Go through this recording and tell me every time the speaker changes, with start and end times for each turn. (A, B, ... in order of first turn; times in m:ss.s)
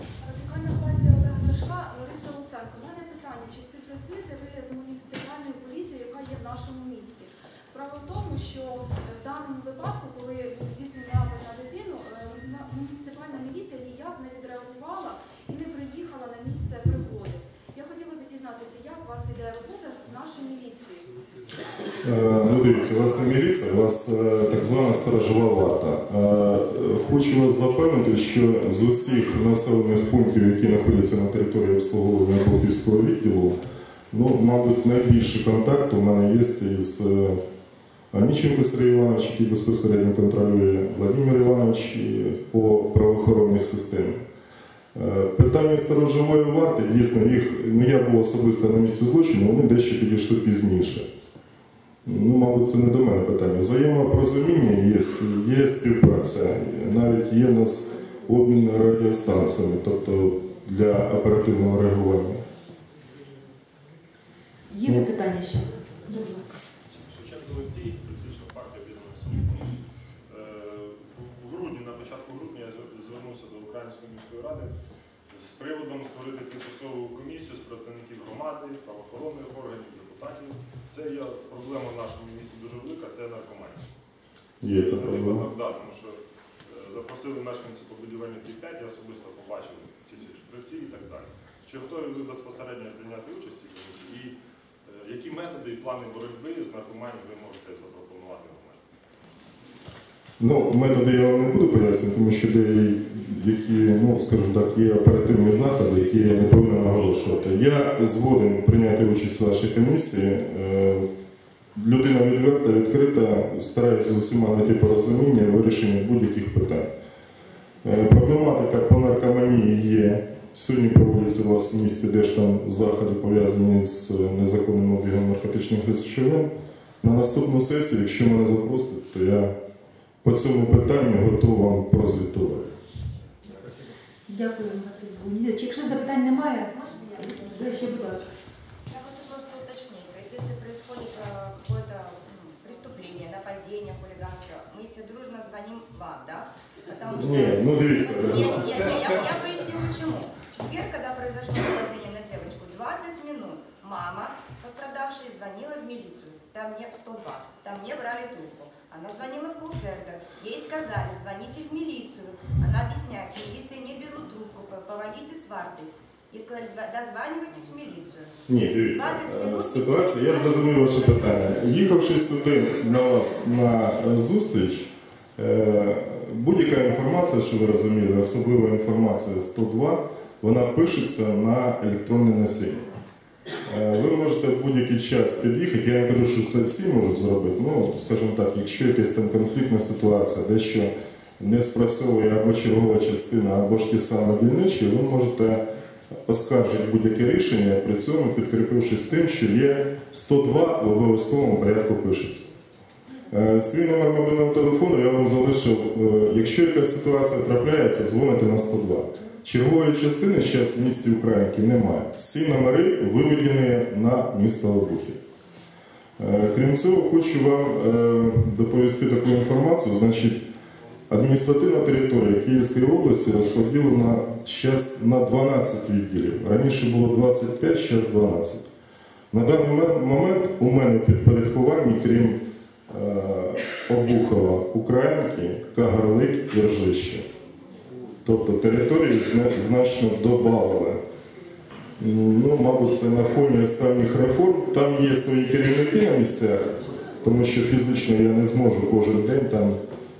0:00.2-0:21.1 A
0:22.0-0:33.6 B
0:34.1-0:37.4 B
0:38.1-0:44.2 B
0:44.9-0:51.1 B
0:52.0-1:02.4 B
1:04.7-1:06.5 C
1:06.9-1:14.7 D
1:15.3-1:23.8 D
1:24.6-1:25.4 B
1:24.7-1:38.8 D
1:40.4-1:51.1 B
1:45.6-1:47.6 D
1:51.7-1:56.9 B
1:57.8-2:06.5 B
2:07.0-2:09.5 B
2:10.2-2:12.7 B
2:14.3-2:18.2 C
2:16.7-2:18.1 E
2:18.9-2:48.3 E
2:27.2-2:29.2 B
2:48.5-3:02.8 B
2:48.9-2:51.3 E
3:03.6-3:15.6 B
3:16.3-3:22.5 B
3:23.3-3:35.2 B
3:36.2-3:40.4 B
3:41.1-3:48.7 B
3:49.3-3:52.4 B
3:52.9-3:57.2 B
3:58.2-4:01.0 B
4:02.0-4:06.6 B
4:07.2-4:09.8 B